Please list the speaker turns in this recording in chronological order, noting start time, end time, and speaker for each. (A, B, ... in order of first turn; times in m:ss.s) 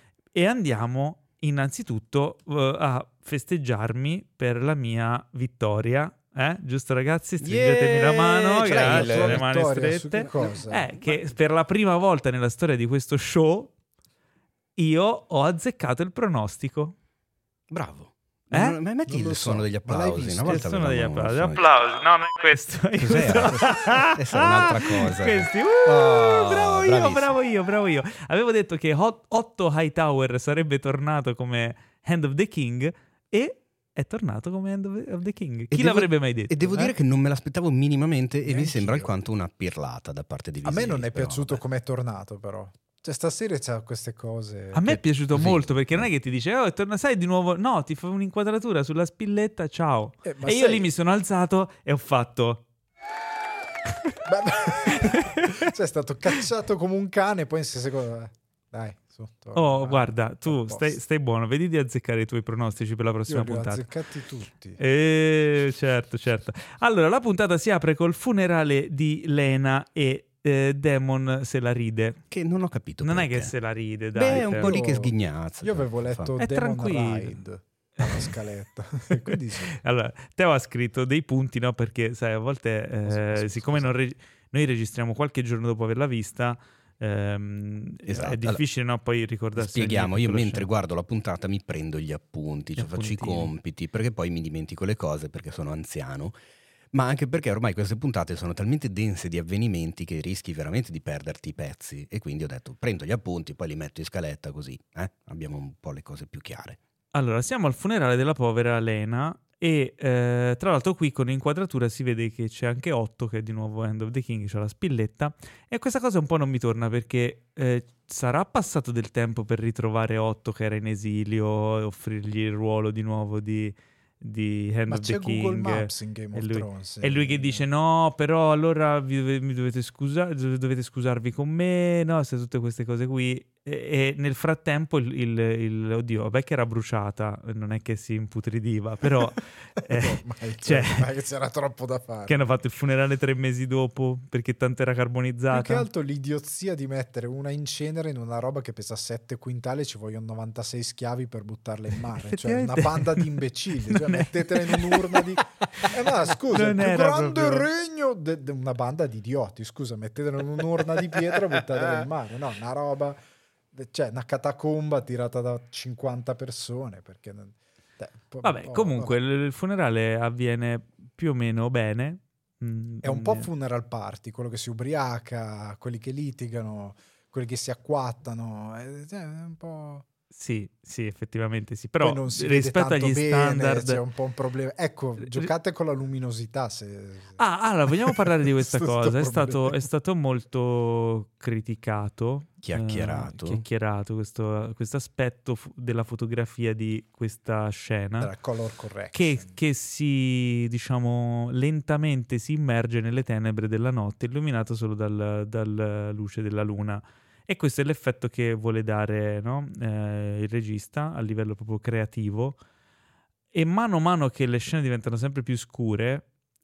0:00.3-0:13.7 A
0:07.4-0:09.4 B
0:08.7-0:11.0 C
0:10.2-0:11.2 B
0:14.8-0:17.0 A
0:17.7-0:21.6 B
0:18.5-0:18.8 A
0:19.1-0:20.8 C
0:20.4-0:36.7 A
0:23.0-0:27.4 B
0:35.7-0:41.6 B
0:38.5-0:39.1 C
0:40.6-0:44.9 C
0:44.7-0:52.6 A
0:44.8-0:46.1 B
0:50.2-0:50.9 C
0:54.2-1:01.0 C
0:54.9-0:55.7 A
0:59.6-1:03.9 A
1:03.3-1:04.8 C
1:04.8-1:12.2 A
1:12.3-1:13.5 B
1:13.0-1:14.7 A
1:14.1-1:16.3 B
1:14.3-1:19.7 C
1:16.4-1:17.4 A
1:18.0-1:18.3 A
1:19.1-1:30.7 A
1:23.1-1:23.9 C
1:28.1-1:28.6 B
1:29.6-1:36.4 B
1:32.8-1:33.5 A
1:36.9-1:46.8 B
1:47.1-2:21.1 A
2:04.9-2:07.7 C
2:19.8-2:22.4 C
2:22.3-2:25.9 A
2:25.5-2:43.2 C
2:32.2-2:33.4 A
2:33.9-2:37.7 A
2:43.7-2:49.2 C
2:48.4-2:53.5 A
2:53.0-3:00.0 C
3:00.3-3:04.0 A
3:02.0-3:09.8 C
3:05.2-3:05.5 A
3:07.4-3:18.3 A
3:12.6-3:13.6 B
3:18.2-3:19.6 C
3:19.1-3:32.6 A
3:33.5-3:36.2 A